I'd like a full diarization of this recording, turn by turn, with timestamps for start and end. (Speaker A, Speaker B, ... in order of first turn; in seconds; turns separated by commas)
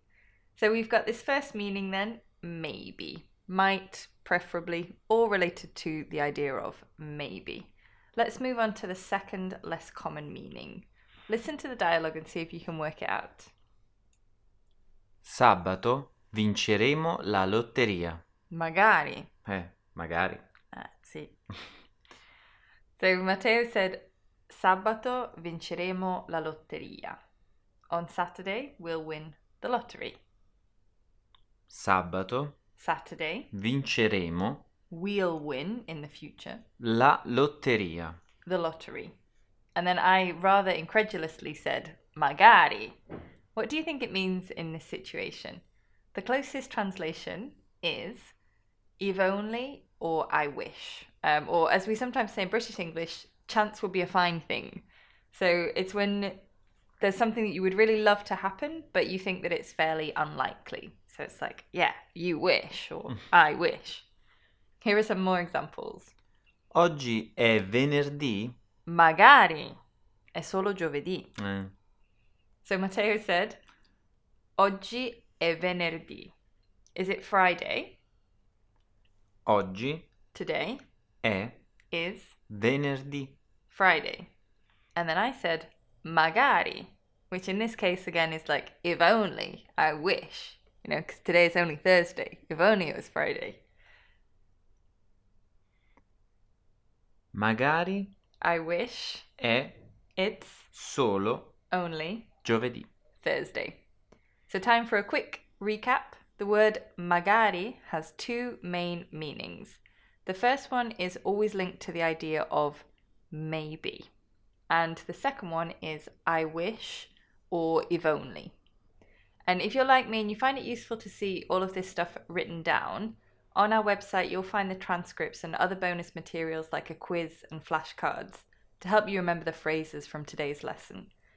Speaker A: 0.6-13.5, Speaker B: 15.2-18.2, Speaker A: 18.5-19.3, Speaker B: 19.4-20.4, Speaker A: 20.7-21.4, Speaker A: 23.0-27.2, Speaker A: 27.9-30.2, Speaker B: 31.7-32.5, Speaker A: 32.8-33.5, Speaker B: 33.5-34.6, Speaker A: 34.9-36.6, Speaker B: 36.8-38.2, Speaker A: 38.4-39.1, Speaker A: 39.7-43.0, Speaker A: 43.5-45.6, Speaker A: 46.1-48.3, Speaker A: 49.0-56.4, Speaker A: 57.0-64.1, Speaker A: 64.8-66.1, Speaker B: 66.7-68.5, Speaker A: 68.8-69.8, Speaker A: 70.3-71.3, Speaker B: 71.4-71.7, Speaker A: 72.6-73.6, Speaker A: 74.6-76.3, Speaker A: 77.0-78.0, Speaker B: 79.5-80.1, Speaker A: 80.3-80.8, Speaker B: 81.2-81.6, Speaker A: 81.9-82.3, Speaker B: 82.5-83.4, Speaker A: 83.7-84.3, Speaker A: 85.0-93.6, Speaker B: 97.3-98.1, Speaker A: 98.4-99.3, Speaker B: 99.4-99.8, Speaker A: 100.2-100.7, Speaker B: 100.7-101.5, Speaker A: 101.7-102.3, Speaker B: 102.4-102.9, Speaker A: 103.2-103.8, Speaker A: 104.5-114.1, Speaker A: 114.7-118.5, Speaker A: 119.5-131.1